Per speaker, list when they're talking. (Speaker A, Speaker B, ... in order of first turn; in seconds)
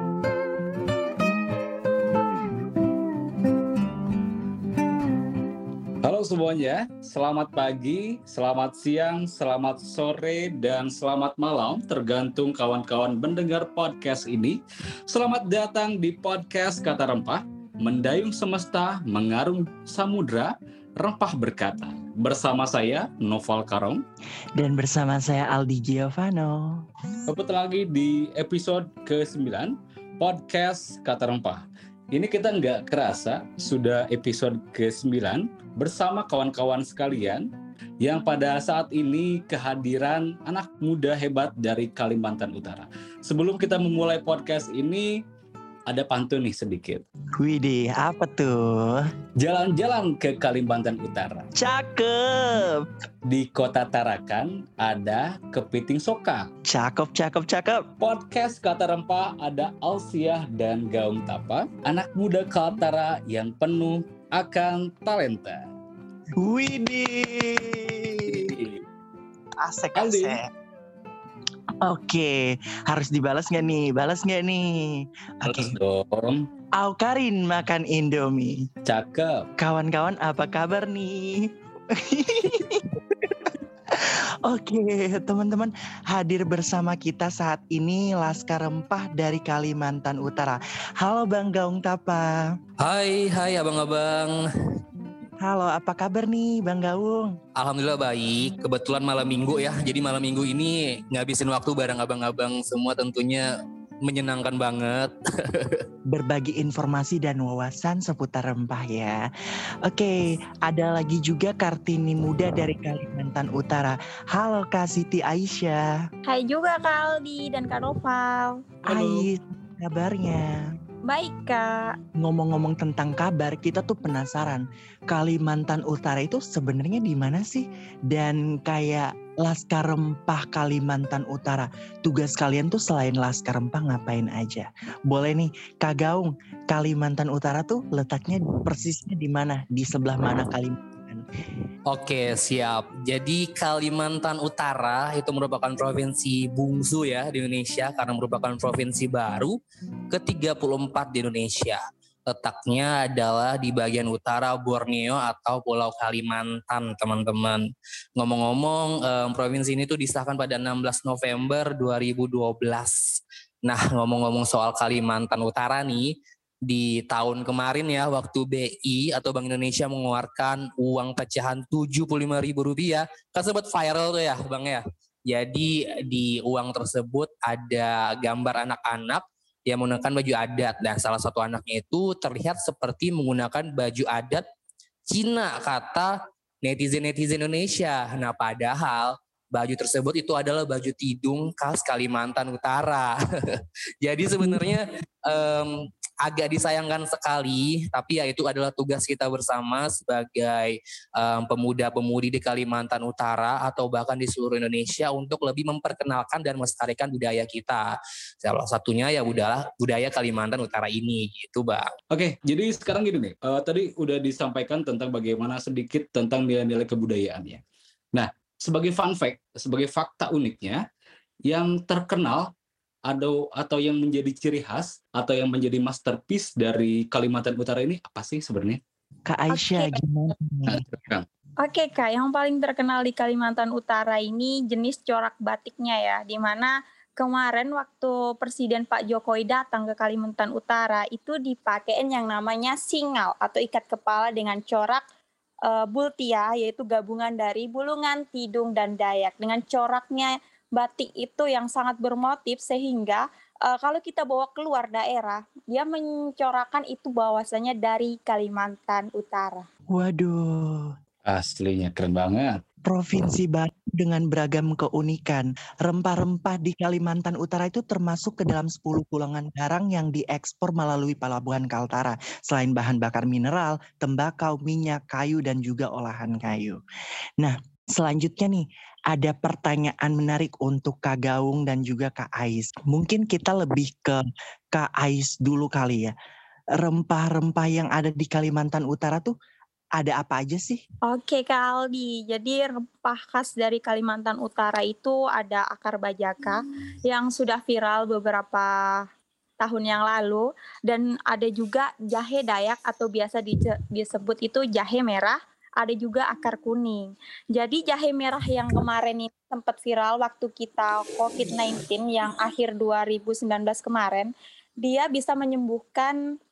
Speaker A: 6.0-24.0, 27.3-37.5, 38.0-45.1, 45.9-47.0, 49.4-51.5, 53.2-56.5, 58.0-65.7, 68.4-68.8, 69.9-70.4, 75.5-76.4, 78.8-79.4, 118.8-119.3, 212.1-217.6, 218.1-220.8, 221.5-222.5, 223.1-228.8, 230.7-231.2, 261.2-262.6
Speaker B: 24.6-26.8, 47.4-49.1, 51.6-52.9, 56.7-57.9, 66.4-68.6, 69.6-70.5, 71.8-75.7, 76.8-78.7, 79.6-92.5, 95.4-97.3, 106.1-109.2, 109.8-115.9, 118.8-120.7, 122.2-141.2, 229.3-230.8, 259.9-260.9, 262.9-276.8, 277.4-284.2, 284.7-286.1, 286.8-289.3, 290.0-290.8
Speaker C: 92.8-94.4, 97.6-103.5, 104.0-105.8, 141.9-149.6, 150.1-166.1, 166.7-184.4, 185.1-193.1, 194.0-207.8, 208.4-211.9
Speaker D: 116.3-118.6, 121.1-122.0, 229.5-230.0, 231.6-245.0, 245.7-259.6, 291.1-299.0, 299.6-316.2